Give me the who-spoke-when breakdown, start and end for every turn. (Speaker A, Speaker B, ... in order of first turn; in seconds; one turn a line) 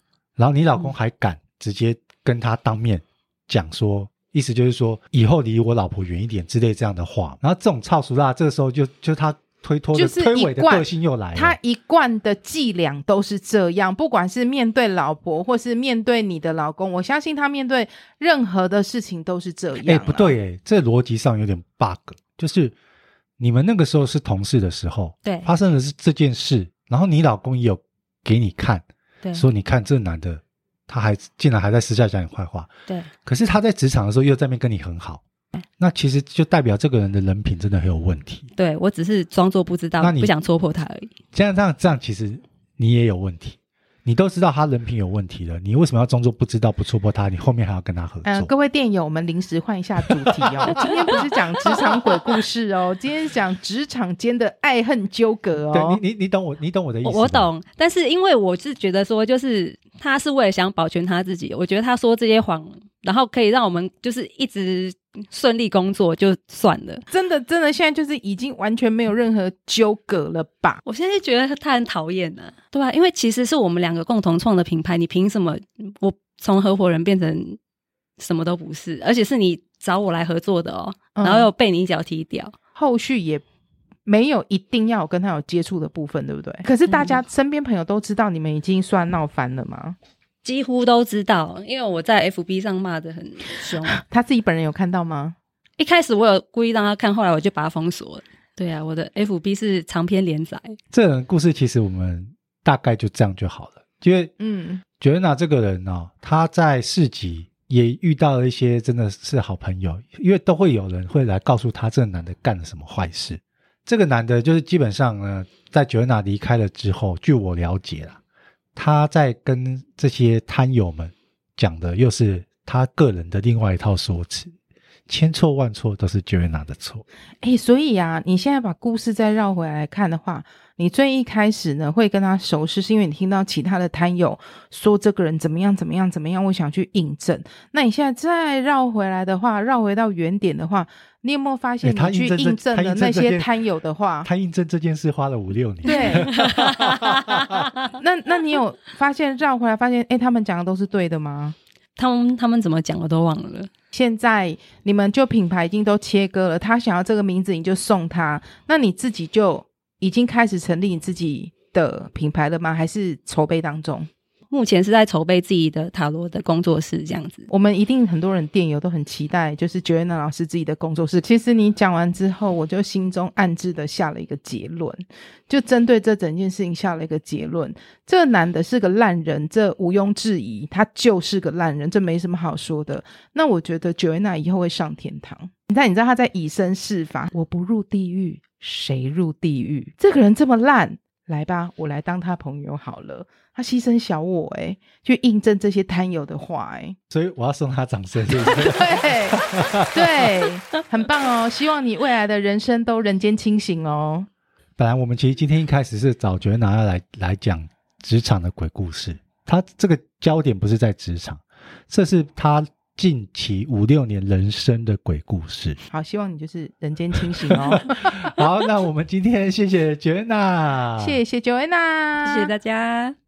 Speaker A: 0.4-11.6
Speaker B: 9.9-20.3
Speaker A: 19.8-22.7
Speaker A: 23.4-32.7
Speaker A: 33.2-35.2
Speaker A: 35.8-38.5
Speaker C: 38.6-41.1
Speaker A: 40.0-40.3
Speaker A: 41.3-48.5
Speaker B: 48.2-56.0
Speaker A: 50.1-50.8
Speaker A: 55.7-57.5
Speaker C: 57.0-67.0
Speaker B: 67.1-70.8
Speaker C: 70.8-77.6
Speaker C: 78.2-82.5
Speaker B: 81.2-81.5
Speaker B: 82.8-83.4
Speaker B: 84.0-90.0
Speaker C: 86.9-87.2
Speaker C: 90.4-94.0
Speaker B: 93.9-95.3
Speaker C: 95.8-100.8
Speaker A: 100.9-104.3
Speaker B: 104.4-104.8
Speaker A: 105.0-118.2
Speaker A: 118.8-124.5
Speaker A: 125.1-127.0
Speaker B: 127.4-144.3
Speaker A: 141.8-143.5
Speaker A: 144.2-147.7
Speaker B: 145.8-146.3
Speaker C: 145.9-147.9
Speaker B: 147.9-151.6
Speaker C: 152.0-153.7
Speaker B: 153.9-164.1
Speaker C: 164.5-167.5
Speaker B: 167.5-196.9
Speaker A: 197.1-200.1
Speaker B: 198.3-204.3
Speaker A: 204.8-215.8
Speaker B: 215.9-218.3
Speaker A: 217.5-221.2
Speaker B: 221.0-222.5
Speaker C: 222.2-223.2